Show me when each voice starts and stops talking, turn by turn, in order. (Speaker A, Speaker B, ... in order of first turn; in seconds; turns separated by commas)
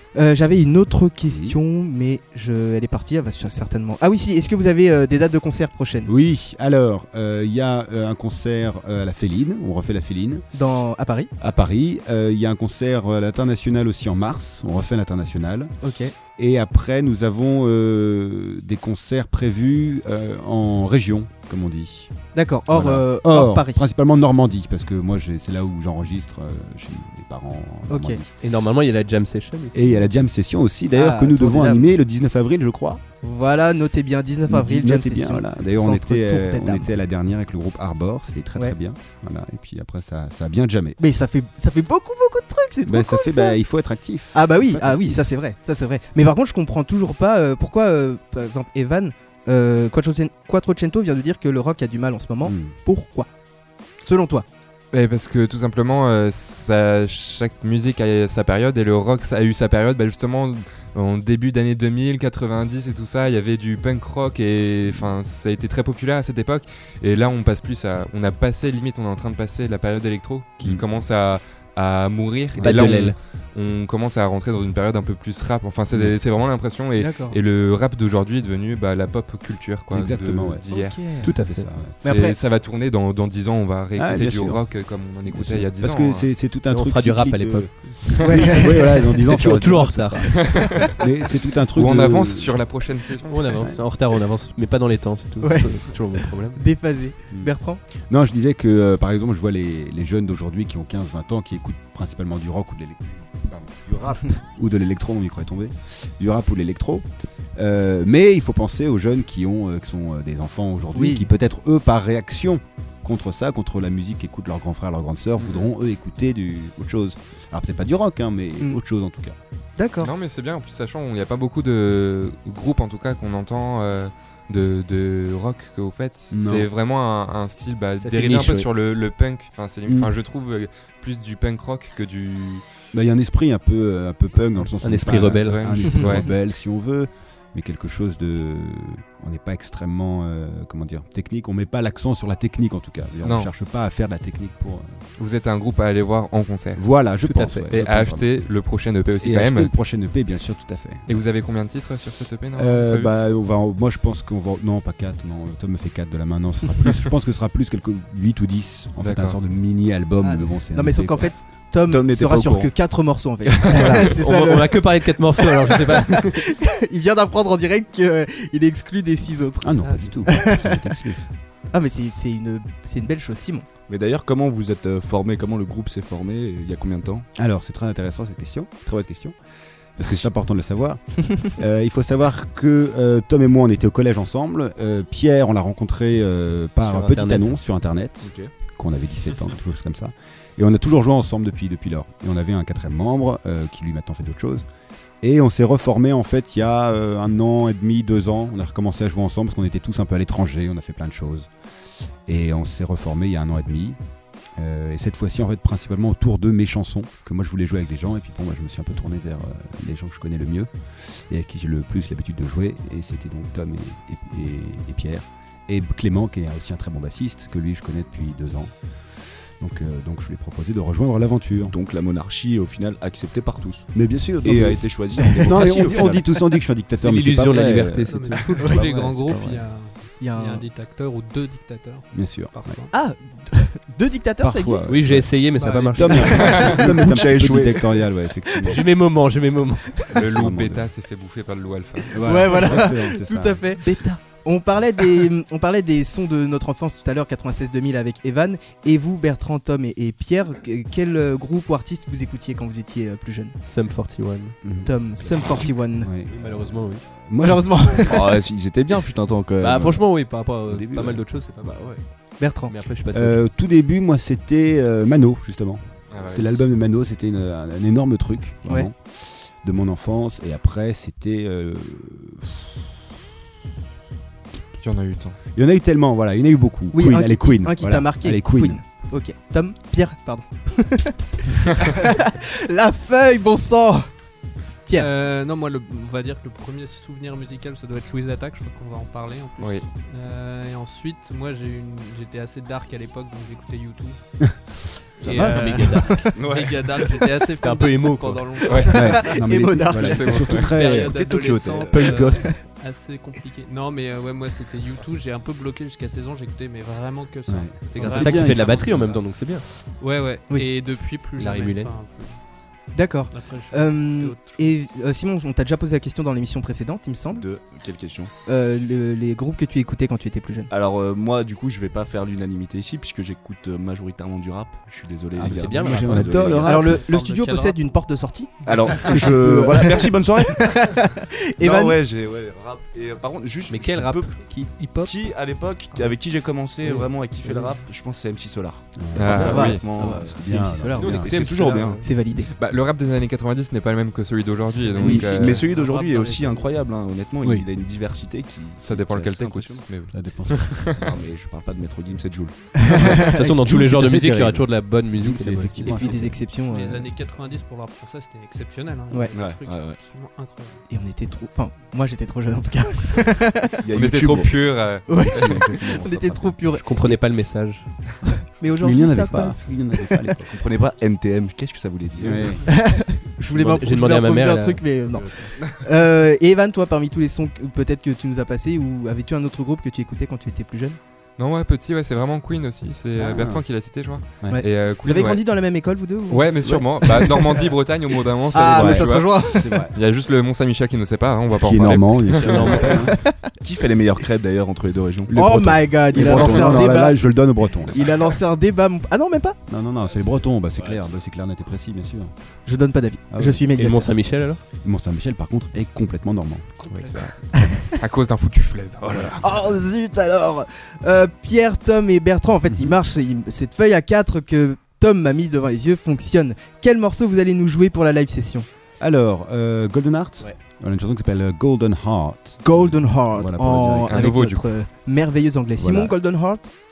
Speaker A: 0.1-6.1, Speaker B: 1.3-1.6, Speaker B: 6.0-10.4, Speaker A: 10.5-11.3, Speaker B: 11.4-15.7, Speaker A: 15.8-16.1, Speaker B: 16.4-22.1, Speaker A: 22.3-23.8, Speaker B: 22.7-28.3, Speaker A: 27.9-28.2, Speaker C: 28.4-30.1, Speaker B: 29.7-33.0, Speaker A: 30.9-31.9, Speaker A: 33.2-36.9, Speaker B: 34.5-41.0, Speaker A: 41.0-43.6, Speaker B: 42.9-45.2, Speaker A: 44.3-53.3, Speaker B: 52.4-52.7, Speaker A: 54.0-54.4, Speaker D: 54.9-81.0, Speaker B: 64.8-65.1, Speaker B: 72.6-73.1, Speaker C: 72.6-73.2, Speaker A: 77.0-77.4, Speaker B: 79.9-80.6, Speaker A: 80.7-81.3, Speaker C: 81.2-81.7, Speaker B: 81.2-82.0, Speaker A: 82.0-82.3, Speaker D: 82.0-86.3, Speaker B: 84.0-84.7, Speaker B: 85.2-92.6, Speaker C: 86.7-90.5, Speaker A: 88.2-89.1, Speaker D: 90.3-91.0, Speaker D: 91.7-93.6, Speaker C: 93.3-96.6, Speaker B: 93.6-93.8, Speaker A: 95.4-97.8, Speaker B: 98.0-119.4, Speaker A: 110.9-111.3, Speaker A: 119.8-120.1, Speaker D: 120.0-132.6, Speaker B: 126.3-126.7, Speaker C: 128.0-128.7, Speaker B: 129.9-130.1, Speaker B: 132.9-145.0, Speaker C: 134.8-135.8, Speaker D: 135.2-136.3, Speaker D: 143.2-143.5, Speaker D: 145.2-146.8, Speaker B: 146.8-148.3, Speaker C: 147.2-147.7, Speaker D: 147.7-149.7, Speaker B: 149.2-151.2, Speaker D: 151.1-153.1, Speaker B: 152.5-161.3, Speaker D: 159.0-159.4, Speaker A: 160.7-170.8, Speaker E: 161.9-162.7, Speaker C: 163.8-166.4, Speaker B: 169.6-171.2, Speaker C: 169.8-170.3, Speaker A: 171.7-173.7, Speaker E: 173.9-177.3, Speaker B: 177.3-179.3, Speaker B: 179.9-194.7, Speaker C: 186.8-187.6, Speaker E: 188.2-188.5, Speaker B: 195.2-201.5, Speaker B: 202.2-204.0, Speaker B: 204.6-221.7, Speaker E: 221.6-226.3, Speaker B: 223.9-229.6, Speaker C: 226.9-228.9, Speaker F: 228.1-232.9, Speaker A: 230.2-230.6, Speaker B: 232.1-232.8, Speaker A: 232.9-234.9, Speaker B: 234.4-238.8, Speaker C: 234.8-237.0, Speaker F: 235.5-236.2, Speaker A: 236.1-236.7, Speaker D: 236.3-236.7, Speaker E: 236.7-238.0, Speaker C: 238.6-240.1, Speaker D: 240.1-242.2, Speaker B: 240.1-240.9, Speaker B: 242.1-243.8, Speaker A: 242.2-253.6, Speaker C: 253.6-254.6, Speaker B: 254.6-254.9, Speaker A: 254.8-256.1, Speaker E: 255.2-255.6, Speaker B: 256.0-257.8, Speaker C: 256.3-257.1, Speaker A: 257.4-258.3, Speaker E: 258.1-260.0, Speaker C: 259.6-262.1, Speaker B: 260.7-261.4, Speaker E: 261.6-262.0, Speaker A: 262.4-262.7, Speaker C: 262.6-263.4, Speaker B: 263.1-272.8, Speaker D: 266.1-266.6, Speaker D: 274.8-275.4, Speaker B: 275.5-278.8, Speaker A: 276.9-284.1, Speaker F: 284.9-299.4, Speaker D: 289.6-289.8, Speaker C: 295.2-296.4, Speaker E: 296.3-296.8, Speaker C: 297.6-298.8, Speaker D: 298.7-298.9, Speaker A: 298.8-300.4, Speaker B: 298.9-302.4, Speaker D: 299.9-300.7, Speaker F: 300.5-312.6, Speaker E: 300.9-302.2, Speaker B: 307.5-309.2, Speaker C: 307.9-309.6, Speaker C: 311.4-312.1, Speaker A: 312.9-317.4, Speaker F: 313.3-314.8, Speaker E: 317.3-318.3, Speaker A: 318.4-320.7, Speaker E: 320.7-326.7, Speaker B: 325.4-327.0, Speaker C: 325.4-326.6, Speaker F: 326.6-327.8, Speaker A: 326.6-332.0, Speaker E: 328.6-331.0, Speaker E: 331.6-340.5, Speaker C: 333.7-335.0, Speaker F: 334.7-335.2, Speaker C: 336.8-337.7, Speaker B: 339.0-341.4, Speaker D: 339.1-339.8, Speaker A: 339.2-342.5, Speaker E: 341.0-342.0, Speaker C: 341.0-342.1, Speaker D: 342.5-345.6, Speaker F: 344.7-346.8, Speaker E: 345.0-349.9, Speaker D: 348.8-351.0, Speaker B: 350.1-350.9, Speaker E: 351.0-352.9, Speaker A: 352.9-353.6, Speaker C: 353.1-356.4, Speaker B: 353.6-356.4, Speaker A: 355.8-357.1, Speaker F: 356.6-360.8, Speaker E: 359.3-360.0, Speaker A: 360.9-363.7, Speaker E: 363.8-364.9, Speaker D: 363.9-365.6, Speaker A: 365.1-366.9, Speaker B: 365.3-367.2, Speaker C: 366.8-368.0, Speaker A: 368.5-370.2, Speaker B: 368.8-370.6, Speaker E: 370.5-372.6, Speaker B: 372.2-372.7, Speaker A: 372.6-381.0, Speaker C: 373.5-375.4, Speaker D: 381.4-385.4, Speaker B: 383.1-383.6, Speaker A: 384.5-387.6, Speaker D: 386.3-392.9, Speaker A: 388.5-389.8, Speaker B: 388.5-389.9, Speaker B: 391.6-393.1, Speaker C: 392.4-393.2, Speaker A: 392.9-393.4, Speaker E: 393.6-395.4, Speaker B: 395.3-398.0, Speaker A: 395.3-397.2, Speaker E: 396.1-396.8, Speaker A: 397.9-399.6, Speaker B: 399.7-402.3, Speaker E: 400.1-401.2, Speaker A: 402.6-404.1, Speaker B: 403.3-403.6, Speaker C: 403.7-404.6, Speaker B: 404.8-407.2, Speaker A: 407.5-407.8, Speaker D: 407.6-409.4, Speaker A: 409.4-418.7, Speaker B: 412.7-412.9, Speaker B: 419.0-424.3, Speaker A: 422.6-426.7, Speaker D: 424.1-424.7, Speaker B: 425.8-426.1